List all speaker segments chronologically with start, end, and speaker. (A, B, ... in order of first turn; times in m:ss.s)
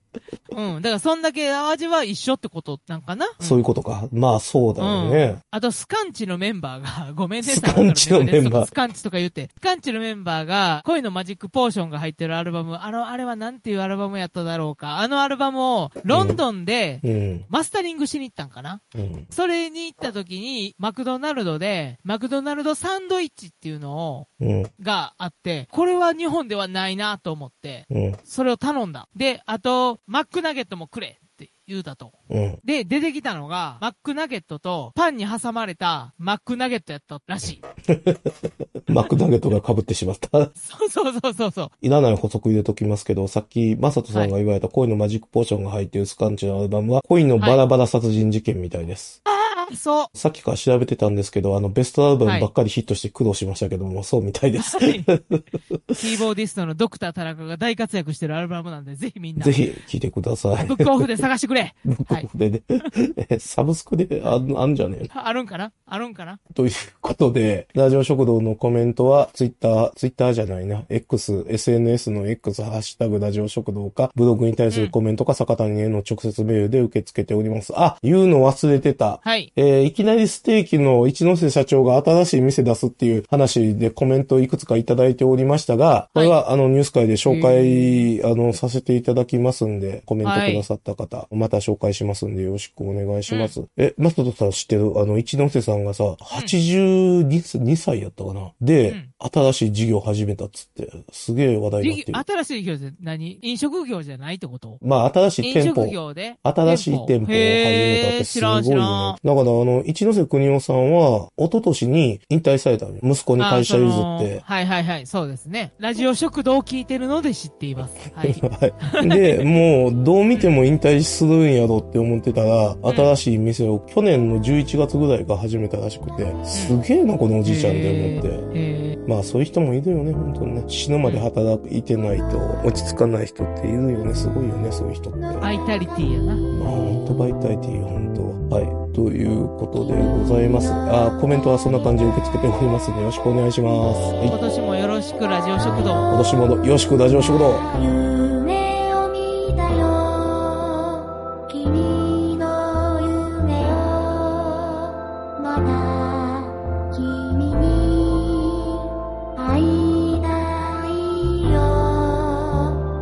0:00.5-0:03.6 A
0:03.4-0:05.4 B
0:04.8-0:37.6 A
0:07.4-0:08.7 B
0:16.1-0:16.4 B
0:17.0-0:17.5 B
0:19.0-0:19.3 B
0:24.4-0:24.7 B
0:27.9-0:28.2 B
0:32.3-0:32.6 B
0:37.9-0:38.4 B
0:38.9-0:40.5 B
0:40.6-0:41.7 A
0:41.8-0:49.2 B
0:47.4-0:47.6 A
0:49.3-0:50.1 A
0:50.1-0:56.0 B
0:52.2-0:52.5 A
0:54.6-0:55.1 A
0:56.0-0:59.6 A
0:59.4-1:01.2 B
1:00.6-1:02.3 A
1:01.9-1:05.1 B
1:05.1-1:06.4 A
1:06.5-1:42.2 B
1:19.2-1:19.5 A
1:27.2-1:28.1 A
1:30.2-1:30.7 A
1:33.3-1:33.6 A
1:41.8-1:44.8 A
1:44.8-1:54.4 B
1:45.4-1:49.2 A
1:53.4-1:59.5 A
1:58.0-2:08.4 B
2:02.9-2:03.1 A
2:07.4-2:09.0 A
2:09.1-2:15.5 B
2:15.2-2:16.2 C
2:15.4-2:16.5 A
2:16.5-2:24.4 B
2:24.2-2:26.1 A
2:26.1-2:27.6 B
2:27.6-2:42.8 C